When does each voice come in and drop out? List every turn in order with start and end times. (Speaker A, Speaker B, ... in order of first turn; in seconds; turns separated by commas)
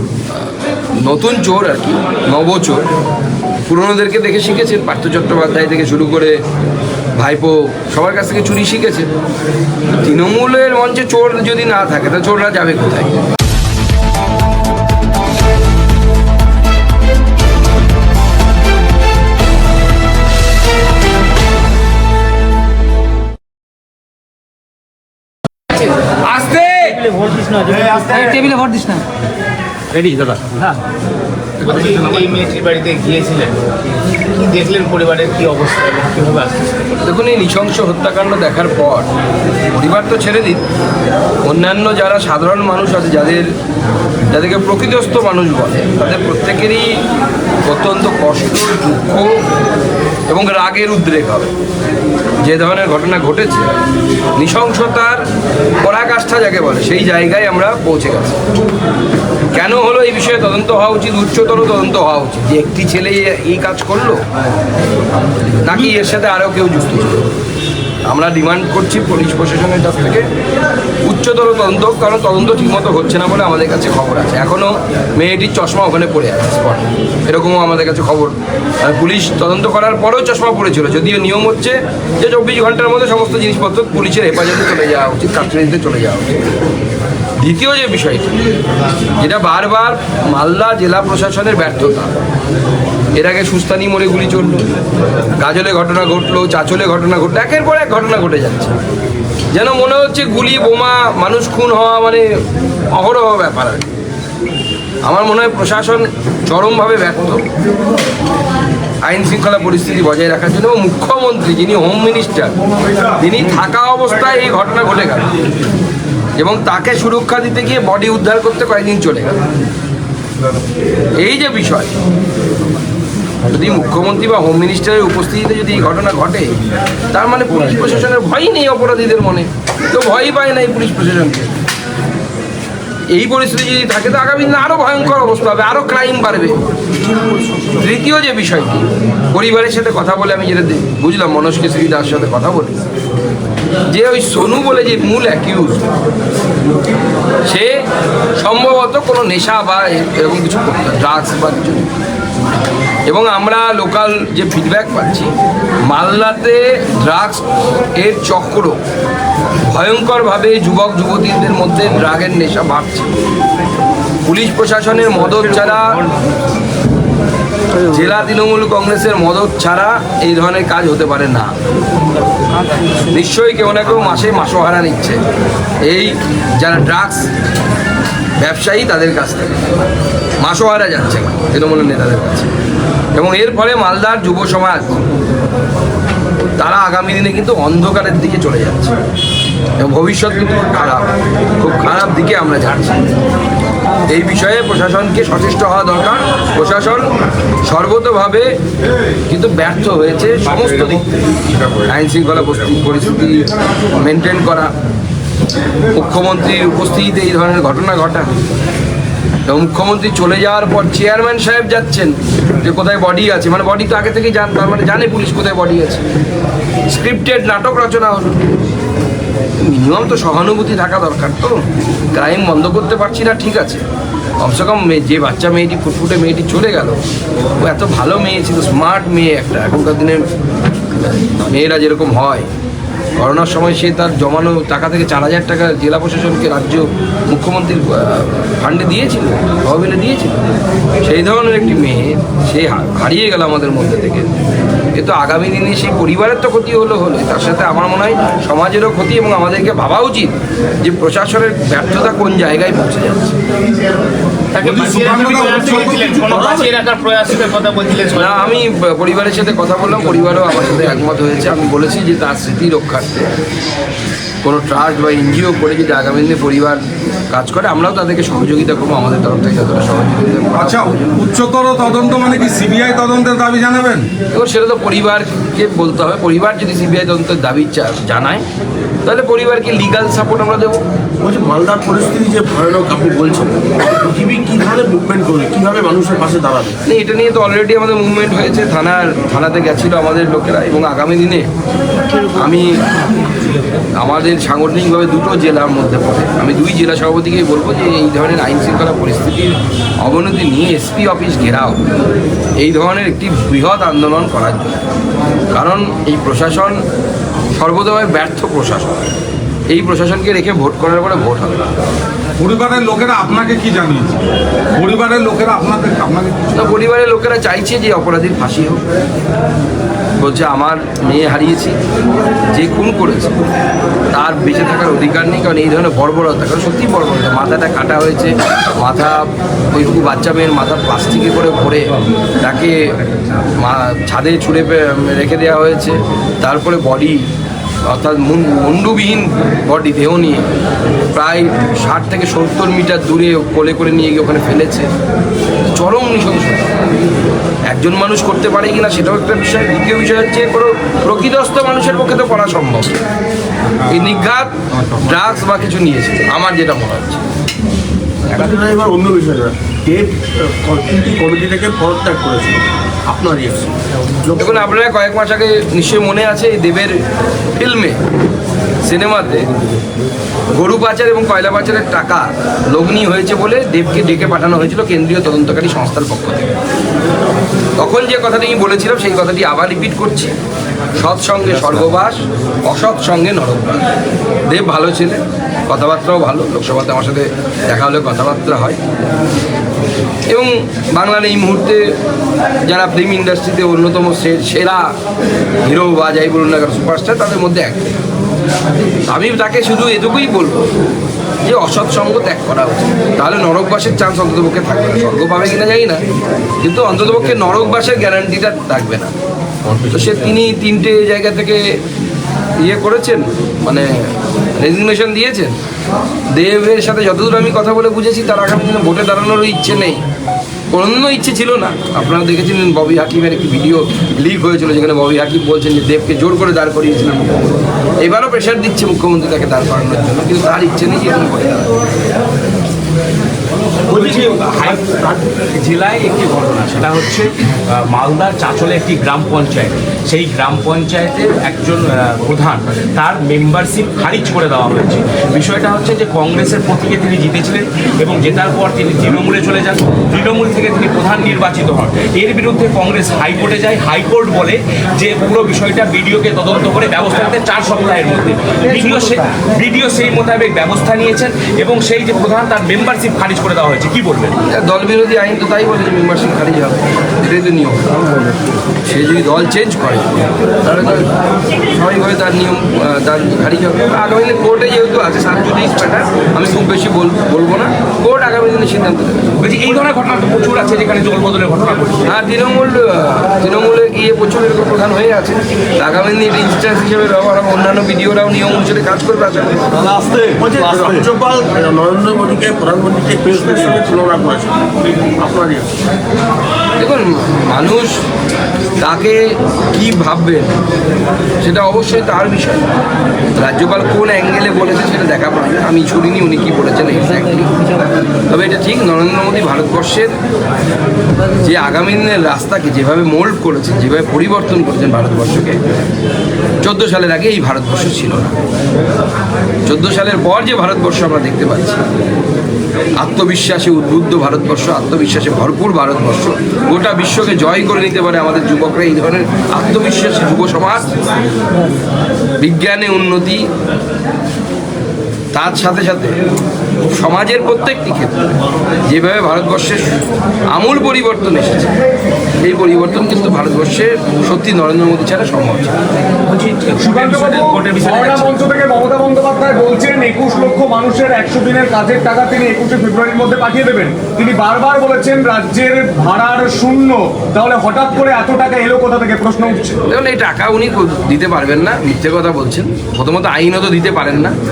Speaker A: 0.9-2.9, Speaker A: 3.6-6.4, Speaker A: 7.2-9.1, Speaker A: 9.9-13.3, Speaker B: 26.2-27.0, Speaker C: 27.1-28.1, Speaker B: 27.9-29.0, Speaker B: 29.9-30.6, Speaker C: 31.6-33.5, Speaker C: 34.3-36.5, Speaker A: 37.0-39.1, Speaker A: 39.7-40.6, Speaker A: 41.4-43.5, Speaker A: 44.3-47.0, Speaker A: 47.6-49.4, Speaker A: 50.3-51.5, Speaker A: 52.4-53.7, Speaker A: 54.4-55.2, Speaker A: 55.8-58.4, Speaker A: 59.5-64.2, Speaker A: 65.6-67.3, Speaker A: 68.1-70.2, Speaker A: 71.0-86.4, Speaker A: 87.4-88.4, Speaker A: 89.2-92.1, Speaker A: 93.1-94.7, Speaker A: 95.4-98.8, Speaker A: 99.5-102.3, Speaker A: 102.9-103.8, Speaker A: 105.0-107.4, Speaker A: 109.0-112.5, Speaker A: 113.2-115.3, Speaker A: 116.4-119.4, Speaker A: 121.2-121.9, Speaker A: 123.5-126.5, Speaker A: 127.1-131.5, Speaker A: 133.1-136.6, Speaker D: 137.0-137.8, Speaker A: 137.8-142.8, Speaker A: 143.9-145.9, Speaker A: 147.4-147.8, Speaker A: 148.3-151.9, Speaker A: 153.1-155.3, Speaker A: 155.9-158.8, Speaker A: 159.6-163.1, Speaker A: 164.2-166.0, Speaker B: 165.2-166.0, Speaker A: 167.8-171.5, Speaker A: 173.1-175.2, Speaker A: 175.8-177.3, Speaker A: 178.4-179.6, Speaker A: 180.4-182.5, Speaker A: 183.1-184.9, Speaker A: 186.6-188.9, Speaker A: 189.8-193.1, Speaker A: 194.1-197.1, Speaker A: 197.7-198.5, Speaker A: 199.3-201.2, Speaker A: 201.9-204.7, Speaker A: 205.9-208.3, Speaker A: 209.5-216.0, Speaker A: 216.9-218.4, Speaker A: 219.6-221.6, Speaker A: 222.1-223.8, Speaker A: 224.4-227.0, Speaker A: 227.6-230.2, Speaker A: 231.1-232.5, Speaker A: 233.2-240.4, Speaker A: 241.0-244.3, Speaker A: 244.9-253.3, Speaker C: 254.5-258.5, Speaker E: 254.6-256.6, Speaker A: 258.1-263.3, Speaker A: 264.4-271.2, Speaker E: 270.5-274.1, Speaker A: 274.3-278.4, Speaker A: 279.0-280.8, Speaker D: 281.2-286.8, Speaker A: 286.9-291.5, Speaker A: 292.4-292.8, Speaker A: 294.0-301.9, Speaker A: 302.6-304.8, Speaker A: 305.5-306.8, Speaker A: 307.5-309.0, Speaker A: 309.7-311.7, Speaker E: 312.4-314.2, Speaker E: 314.8-316.7, Speaker A: 316.5-318.8, Speaker A: 320.2-321.8, Speaker A: 322.5-323.4, Speaker A: 324.1-332.9, Speaker A: 333.6-337.2, Speaker A: 337.9-340.5, Speaker A: 341.1-344.9, Speaker A: 345.7-346.7, Speaker A: 347.7-353.0, Speaker A: 353.9-357.2, Speaker D: 358.3-363.7, Speaker D: 364.2-364.6, Speaker A: 364.4-367.0, Speaker A: 367.5-368.0, Speaker A: 368.8-369.5, Speaker A: 370.5-376.5, Speaker A: 377.8-380.3, Speaker A: 381.0-383.9, Speaker A: 384.5-388.8, Speaker A: 390.3-391.8, Speaker A: 392.6-394.9, Speaker A: 395.6-397.9, Speaker A: 399.1-400.6, Speaker A: 401.4-406.0, Speaker A: 406.6-409.1, Speaker A: 409.7-411.8, Speaker A: 412.6-414.0, Speaker A: 414.6-415.5, Speaker A: 416.3-420.0, Speaker A: 420.7-427.5, Speaker A: 428.0-431.7, Speaker B: 433.9-434.8, Speaker D: 433.9-435.3, Speaker B: 435.5-464.4, Speaker A: 464.4-467.9, Speaker A: 468.8-470.1, Speaker A: 470.6-471.1, Speaker A: 471.7-479.3, Speaker B: 479.4-482.1, Speaker A: 482.0-489.6, Speaker E: 489.7-491.0, Speaker D: 490.4-494.5, Speaker D: 495.2-495.7, Speaker A: 496.8-498.0, Speaker A: 498.8-499.2, Speaker A: 499.7-500.5, Speaker A: 501.4-502.7, Speaker A: 503.4-510.1, Speaker A: 511.4-515.6, Speaker A: 516.6-518.4, Speaker A: 519.6-521.8, Speaker A: 523.0-530.9, Speaker A: 532.4-533.5, Speaker A: 535.3-536.2, Speaker A: 536.8-538.2, Speaker A: 538.9-539.9, Speaker A: 540.5-541.7, Speaker A: 542.4-545.8, Speaker B: 546.3-548.5, Speaker F: 546.8-559.8, Speaker A: 559.9-564.3